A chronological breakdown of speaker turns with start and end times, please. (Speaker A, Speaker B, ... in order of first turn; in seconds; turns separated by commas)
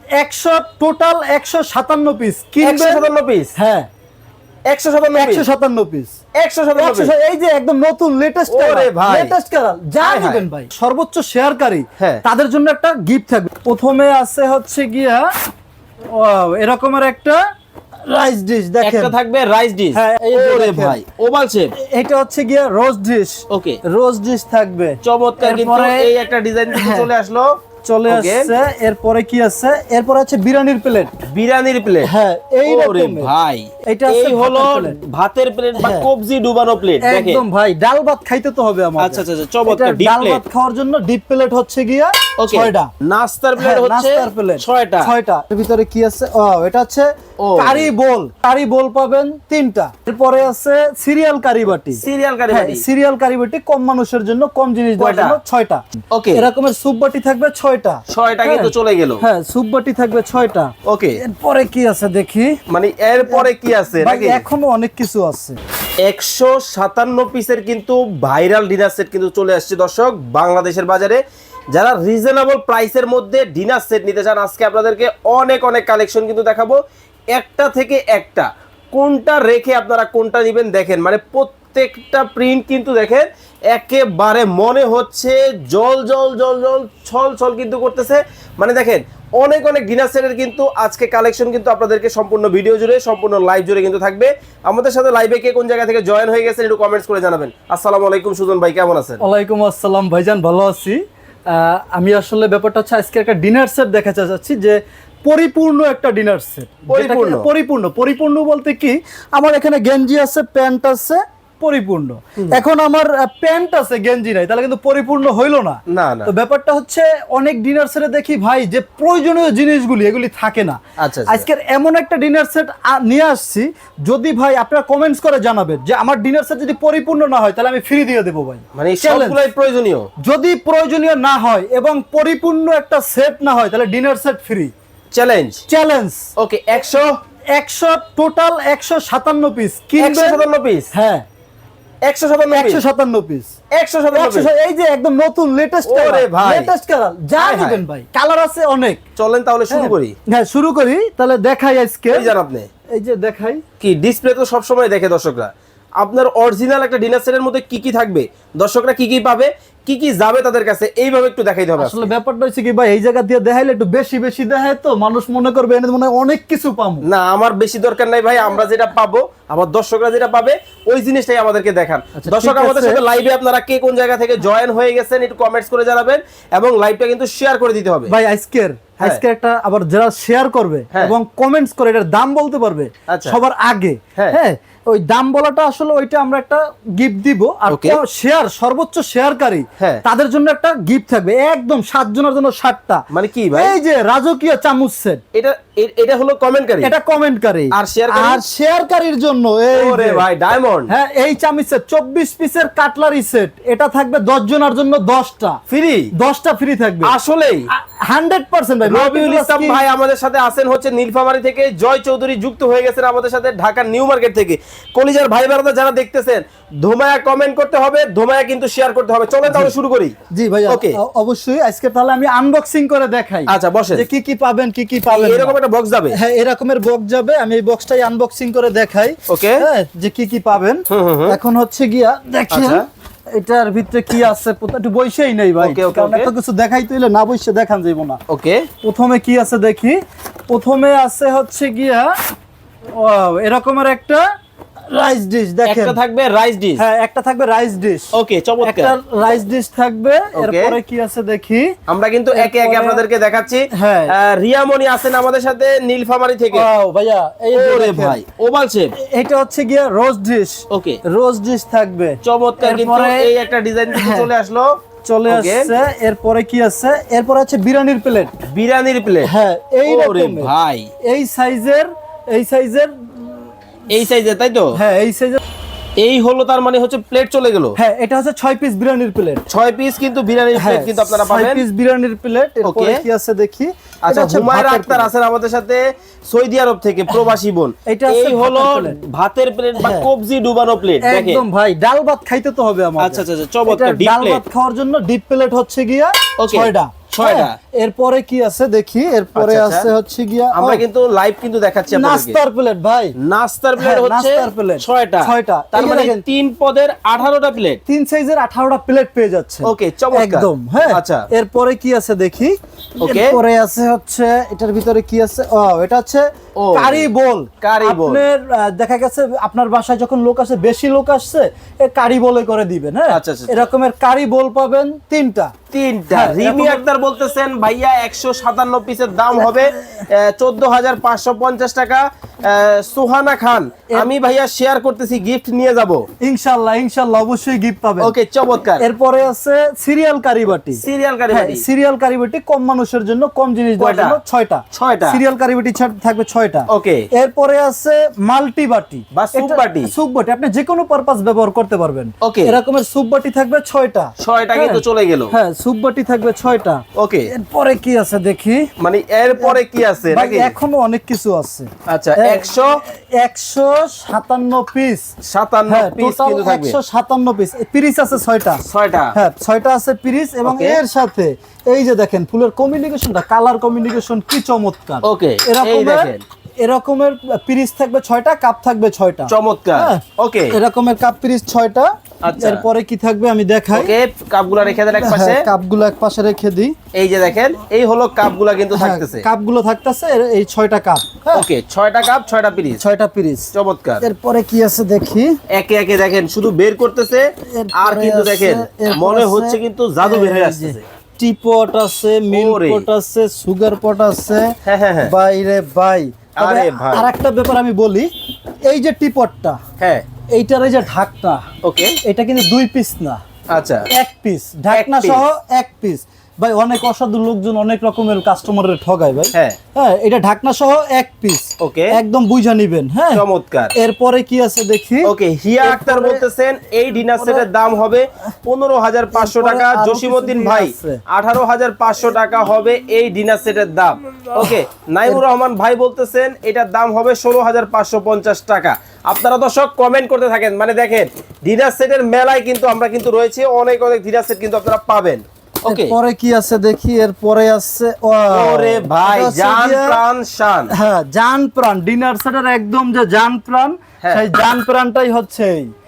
Speaker A: 0.2-3.9, Speaker B: 2.6-3.5, Speaker B: 4.7-5.5, Speaker A: 5.1-6.1, Speaker B: 6.4-7.1, Speaker A: 6.7-15.3, Speaker B: 8.5-9.3, Speaker B: 10.0-10.4, Speaker A: 16.1-17.4, Speaker A: 18.1-19.1, Speaker B: 18.8-21.7, Speaker A: 19.9-21.0, Speaker A: 21.8-26.1, Speaker B: 23.5-23.8, Speaker B: 25.0-27.5, Speaker A: 26.7-27.1, Speaker A: 27.8-31.1, Speaker B: 28.1-28.5, Speaker B: 31.3-32.1, Speaker A: 32.0-33.3, Speaker B: 32.6-37.4, Speaker A: 33.9-35.0, Speaker A: 35.8-36.1, Speaker A: 37.0-42.9, Speaker B: 39.0-40.4, Speaker B: 42.4-45.1, Speaker A: 43.6-62.6, Speaker B: 47.4-47.9, Speaker B: 52.0-52.8, Speaker B: 55.0-55.4, Speaker B: 56.1-56.5, Speaker B: 58.1-59.2, Speaker B: 60.9-61.2, Speaker B: 62.7-64.4, Speaker A: 64.0-65.6, Speaker B: 66.0-76.8, Speaker B: 77.3-99.2, Speaker A: 99.2-129.4, Speaker B: 106.9-107.5, Speaker B: 115.9-116.3, Speaker B: 121.0-121.5, Speaker B: 128.7-130.1, Speaker A: 130.2-134.7, Speaker B: 135.1-135.6, Speaker A: 135.7-136.2, Speaker B: 136.4-137.1, Speaker A: 137.5-141.2, Speaker B: 140.0-140.9, Speaker B: 142.0-142.8, Speaker A: 142.5-143.5, Speaker B: 143.7-144.5, Speaker A: 144.1-149.0, Speaker B: 145.8-146.7, Speaker B: 147.4-147.8, Speaker B: 149.2-150.2, Speaker A: 149.7-152.3, Speaker B: 152.1-152.7, Speaker A: 152.9-153.6, Speaker B: 153.8-162.1, Speaker A: 161.8-167.0, Speaker B: 167.0-178.1, Speaker A: 172.2-173.0, Speaker A: 178.1-195.2, Speaker B: 183.1-183.4, Speaker B: 187.7-188.0, Speaker B: 193.1-193.7, Speaker B: 195.3-196.9, Speaker A: 196.8-200.2, Speaker B: 197.7-198.4, Speaker B: 199.7-200.9, Speaker A: 200.9-205.6, Speaker B: 205.7-206.1, Speaker A: 206.2-207.1, Speaker B: 207.0-207.7, Speaker A: 207.7-209.8, Speaker B: 208.8-220.1, Speaker A: 219.5-219.7, Speaker A: 220.3-225.6, Speaker B: 220.7-221.0, Speaker B: 223.5-224.1, Speaker B: 225.1-226.2, Speaker A: 226.1-238.2, Speaker B: 229.3-229.7, Speaker B: 230.9-231.4, Speaker B: 232.5-232.8, Speaker B: 235.6-236.3, Speaker B: 238.3-238.7, Speaker A: 238.8-242.1, Speaker A: 243.0-244.2, Speaker A: 244.9-246.0, Speaker B: 245.7-246.8, Speaker A: 246.8-248.1, Speaker B: 248.1-248.9, Speaker A: 248.6-251.7, Speaker B: 250.3-250.8, Speaker B: 251.9-256.7, Speaker A: 252.3-253.0, Speaker A: 253.7-254.1, Speaker A: 256.5-258.2, Speaker B: 257.5-258.9, Speaker A: 259.1-263.3, Speaker B: 260.7-261.0, Speaker B: 262.2-265.7, Speaker A: 263.9-264.3, Speaker A: 265.1-268.3, Speaker B: 268.5-269.3, Speaker A: 269.2-270.5, Speaker B: 269.9-270.9, Speaker A: 271.0-273.4, Speaker B: 273.9-274.8, Speaker A: 274.8-275.4, Speaker B: 276.0-277.8, Speaker A: 277.8-279.5, Speaker B: 279.5-281.6, Speaker A: 280.6-285.1, Speaker B: 282.6-283.0, Speaker B: 284.1-291.4, Speaker A: 287.9-289.0, Speaker A: 289.8-290.1, Speaker A: 291.0-300.8, Speaker B: 293.0-294.4, Speaker B: 296.4-297.6, Speaker B: 299.4-299.9, Speaker B: 300.5-302.4, Speaker A: 301.9-303.2, Speaker B: 303.2-307.8, Speaker A: 303.8-306.2, Speaker A: 307.9-325.5, Speaker B: 309.6-311.2, Speaker B: 313.0-313.4, Speaker B: 316.6-317.1, Speaker B: 317.6-318.2, Speaker B: 323.1-323.7, Speaker B: 325.7-336.1, Speaker A: 326.1-326.9, Speaker A: 329.4-330.1, Speaker A: 336.2-338.1, Speaker B: 338.0-338.9, Speaker A: 338.8-358.7, Speaker B: 340.8-341.6, Speaker B: 343.8-344.2, Speaker B: 344.7-345.2, Speaker B: 346.7-347.1, Speaker B: 349.1-349.9, Speaker B: 352.2-352.6, Speaker B: 354.2-355.4, Speaker B: 357.0-357.3, Speaker B: 358.8-360.5, Speaker A: 359.3-359.6, Speaker A: 360.1-365.1, Speaker B: 361.9-362.8, Speaker B: 365.2-366.8, Speaker A: 365.7-383.9, Speaker B: 368.6-369.2, Speaker B: 370.5-370.8, Speaker B: 375.0-376.2, Speaker B: 379.3-380.6, Speaker B: 382.2-382.6, Speaker B: 383.7-385.5, Speaker A: 385.0-386.8, Speaker B: 386.9-389.2, Speaker A: 388.7-391.5, Speaker B: 391.3-392.8, Speaker A: 392.8-393.5, Speaker B: 393.5-394.1, Speaker A: 394.0-395.4, Speaker B: 395.5-400.9, Speaker A: 397.5-408.1, Speaker B: 402.3-402.9, Speaker B: 404.6-405.1, Speaker B: 406.4-407.1, Speaker A: 408.7-409.6, Speaker B: 409.8-410.1, Speaker A: 410.3-411.4, Speaker B: 411.6-412.0, Speaker A: 412.0-413.2, Speaker B: 413.5-413.9, Speaker A: 413.9-423.2, Speaker B: 414.7-415.2, Speaker B: 421.6-421.9, Speaker B: 423.1-423.7, Speaker A: 423.8-426.2, Speaker B: 425.1-446.0, Speaker A: 427.2-427.5, Speaker A: 429.1-431.0, Speaker A: 445.6-450.0, Speaker B: 448.3-450.7, Speaker A: 450.7-455.7